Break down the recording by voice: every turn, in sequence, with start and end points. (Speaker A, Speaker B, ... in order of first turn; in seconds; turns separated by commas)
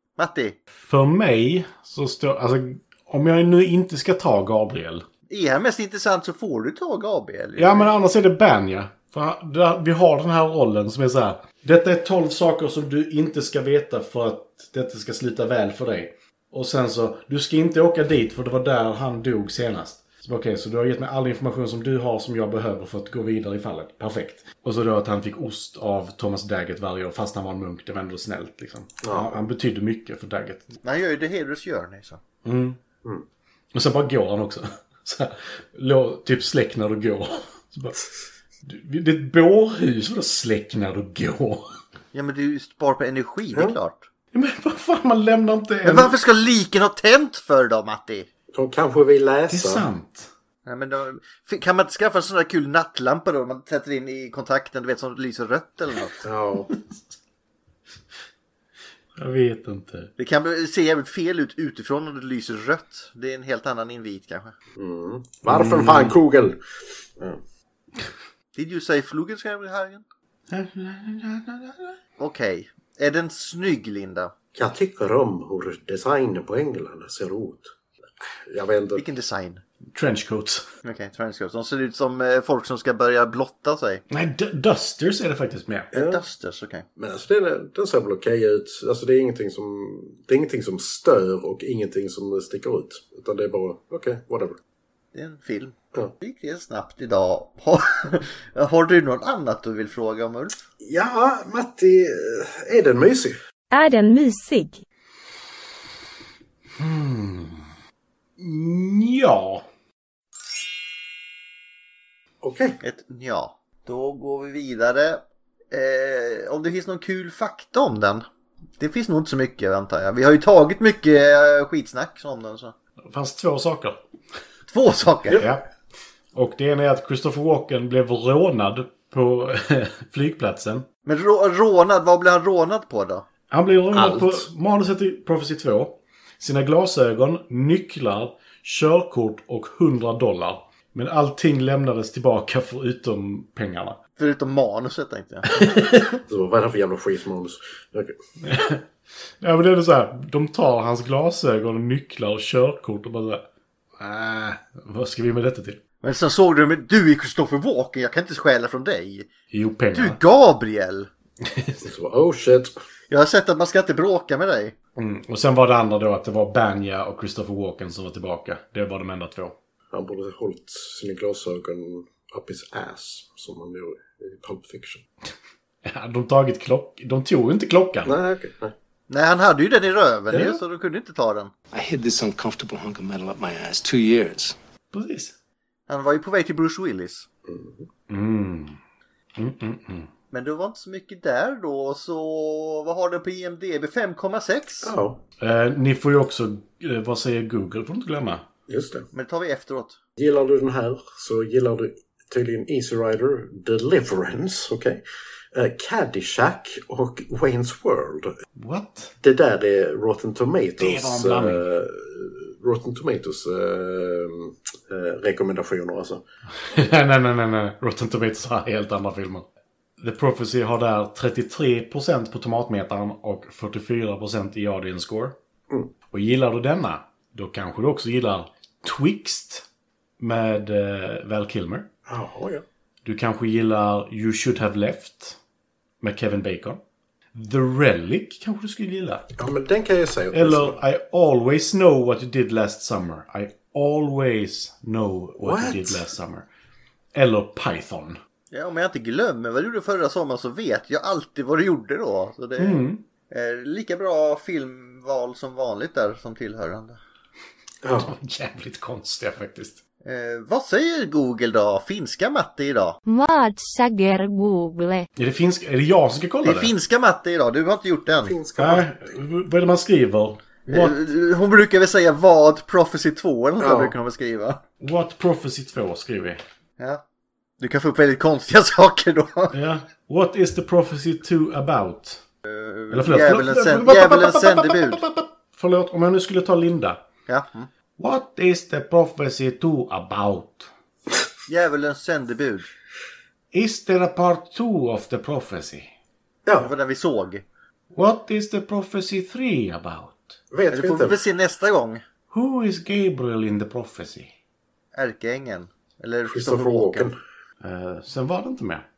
Speaker A: 0.2-0.6, Speaker B: 0.8-5.1, Speaker A: 5.3-7.9, Speaker B: 7.6-30.7, Speaker C: 29.0-29.4, Speaker A: 30.8-32.2, Speaker B: 32.4-32.8, Speaker B: 33.7-38.0, Speaker B: 38.6-41.8, Speaker A: 42.1-44.1, Speaker B: 44.3-46.2, Speaker A: 45.9-48.3, Speaker C: 48.5-49.9, Speaker B: 49.5-50.3, Speaker A: 50.7-56.2, Speaker C: 56.2-56.7, Speaker B: 59.2-60.1, Speaker A: 60.2-64.5, Speaker C: 64.8-66.6, Speaker B: 65.5-66.2, Speaker A: 68.5-70.0, Speaker B: 70.5-72.0, Speaker A: 72.2-74.3, Speaker C: 74.5-77.7, Speaker C: 78.5-79.0, Speaker A: 79.0-79.6, Speaker B: 79.9-80.7, Speaker A: 80.8-84.0, Speaker B: 84.1-85.9, Speaker C: 85.9-86.2, Speaker A: 85.9-86.8, Speaker C: 87.0-94.6, Speaker A: 95.1-100.6, Speaker C: 100.8-103.4, Speaker D: 103.7-104.8, Speaker B: 106.8-107.7, Speaker B: 108.4-109.7, Speaker C: 112.4-112.8, Speaker A: 112.8-118.3, Speaker A: 118.8-122.7, Speaker B: 123.1-124.0, Speaker A: 124.7-125.5, Speaker B: 125.4-125.7, Speaker B: 126.3-130.9, Speaker A: 131.1-133.2, Speaker B: 133.5-144.0, Speaker A: 134.1-134.4, Speaker A: 144.2-145.6, Speaker B: 145.5-146.2, Speaker C: 146.3-148.2, Speaker B: 148.4-148.8, Speaker B: 149.4-153.5, Speaker B: 154.0-155.8, Speaker A: 156.0-159.3, Speaker B: 159.5-160.2, Speaker A: 159.9-161.1, Speaker B: 161.4-161.8, Speaker C: 161.8-162.8, Speaker A: 163.1-164.8, Speaker B: 165.0-169.6, Speaker C: 169.9-175.0, Speaker B: 175.8-178.1, Speaker C: 178.1-178.7, Speaker A: 179.1-181.5, Speaker C: 180.3-180.6, Speaker E: 181.7-184.5, Speaker B: 184.9-185.3, Speaker A: 185.9-187.3, Speaker C: 187.5-187.9, Speaker B: 188.1-188.8, Speaker B: 189.4-190.1, Speaker A: 190.3-194.9, Speaker C: 194.8-195.2, Speaker B: 195.4-198.4, Speaker C: 198.7-199.1, Speaker A: 199.1-200.0, Speaker C: 200.2-205.0, Speaker C: 205.5-208.3, Speaker B: 208.6-209.2, Speaker C: 209.2-216.2, Speaker B: 210.8-211.7, Speaker B: 216.6-219.4, Speaker B: 220.0-225.4, Speaker B: 226.1-229.7, Speaker B: 230.2-231.9, Speaker C: 232.1-232.7, Speaker B: 233.1-235.4, Speaker B: 236.0-236.8, Speaker B: 237.3-239.3, Speaker C: 239.4-240.8, Speaker B: 240.3-246.5, Speaker C: 245.4-246.1, Speaker B: 247.1-248.2, Speaker A: 248.5-257.0, Speaker B: 252.6-253.0, Speaker C: 257.8-258.1, Speaker B: 258.0-259.8, Speaker A: 260.0-263.0, Speaker D: 263.1-265.1, Speaker B: 265.2-266.7, Speaker A: 266.4-268.4, Speaker C: 268.2-268.9, Speaker B: 268.6-271.0, Speaker A: 270.7-274.6, Speaker C: 273.6-273.9, Speaker B: 274.8-276.4, Speaker A: 277.6-279.6, Speaker B: 279.5-282.2, Speaker A: 282.5-285.0, Speaker B: 282.9-287.1, Speaker A: 287.3-287.7, Speaker B: 288.0-290.7, Speaker A: 291.5-292.7, Speaker B: 293.5-295.9, Speaker C: 296.5-296.7, Speaker A: 296.6-297.4, Speaker B: 297.9-300.4, Speaker C: 300.5-301.2, Speaker A: 300.7-302.0, Speaker B: 302.3-304.3, Speaker A: 304.9-307.1, Speaker C: 306.3-307.2, Speaker B: 307.6-308.9